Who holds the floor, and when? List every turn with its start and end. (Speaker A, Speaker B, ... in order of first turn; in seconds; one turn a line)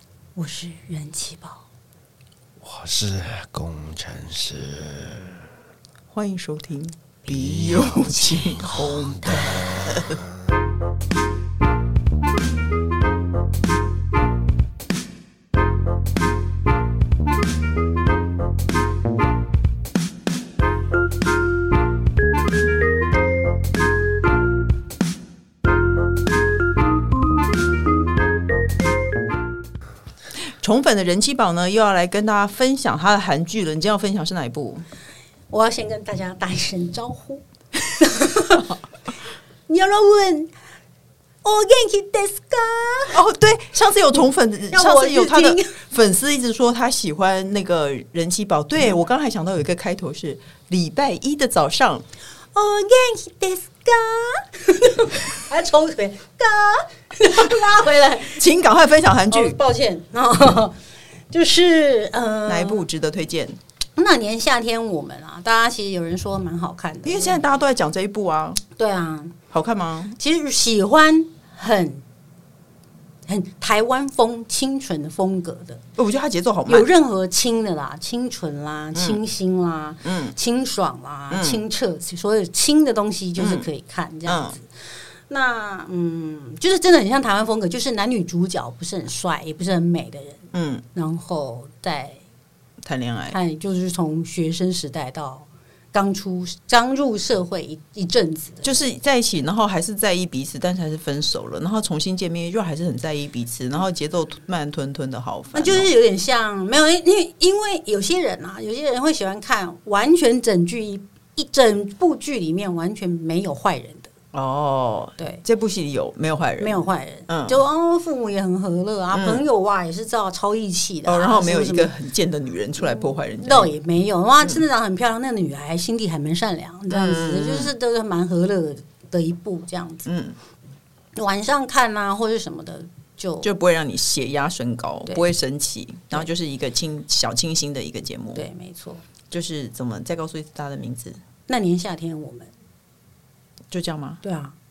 Speaker A: 0.3-1.6
Speaker B: 2.6-5.4
Speaker C: 6.1-9.8
Speaker B: 7.3-10.2
Speaker A: 9.0-9.7
Speaker C: 30.6-34.8
Speaker A: 35.5-37.4
Speaker A: 38.0-38.6
Speaker A: 39.7-40.5
Speaker A: 41.4-43.2
Speaker C: 43.1-52.0
Speaker A: 44.7-45.8
Speaker A: 52.5-58.4
Speaker C: 58.3-59.6
Speaker A: 59.3-60.8
Speaker A: 61.3-62.8
Speaker C: 62.5-63.6
Speaker A: 64.0-67.4
Speaker C: 67.0-68.6
Speaker A: 68.8-69.3
Speaker C: 69.5-70.2
Speaker A: 70.2-72.0
Speaker A: 73.3-75.8
Speaker C: 76.0-76.9
Speaker A: 76.7-84.7
Speaker C: 80.0-80.3
Speaker C: 81.3-81.6
Speaker C: 83.4-83.7
Speaker C: 84.2-84.6
Speaker A: 85.3-90.4
Speaker C: 90.5-90.8
Speaker A: 90.9-92.2
Speaker C: 92.8-93.4
Speaker A: 93.3-98.7
Speaker C: 98.6-105.9
Speaker A: 105.5-114.1
Speaker C: 114.3-117.6
Speaker A: 115.2-115.4
Speaker A: 116.6-121.9
Speaker C: 119.1-119.4
Speaker C: 121.0-123.7
Speaker A: 123.4-130.1
Speaker C: 126.9-127.7
Speaker C: 130.1-130.4
Speaker A: 131.2-133.5
Speaker C: 133.4-138.4
Speaker A: 138.3-139.0
Speaker C: 139.3-141.2
Speaker A: 141.5-142.5
Speaker C: 143.7-144.2
Speaker A: 144.2-144.5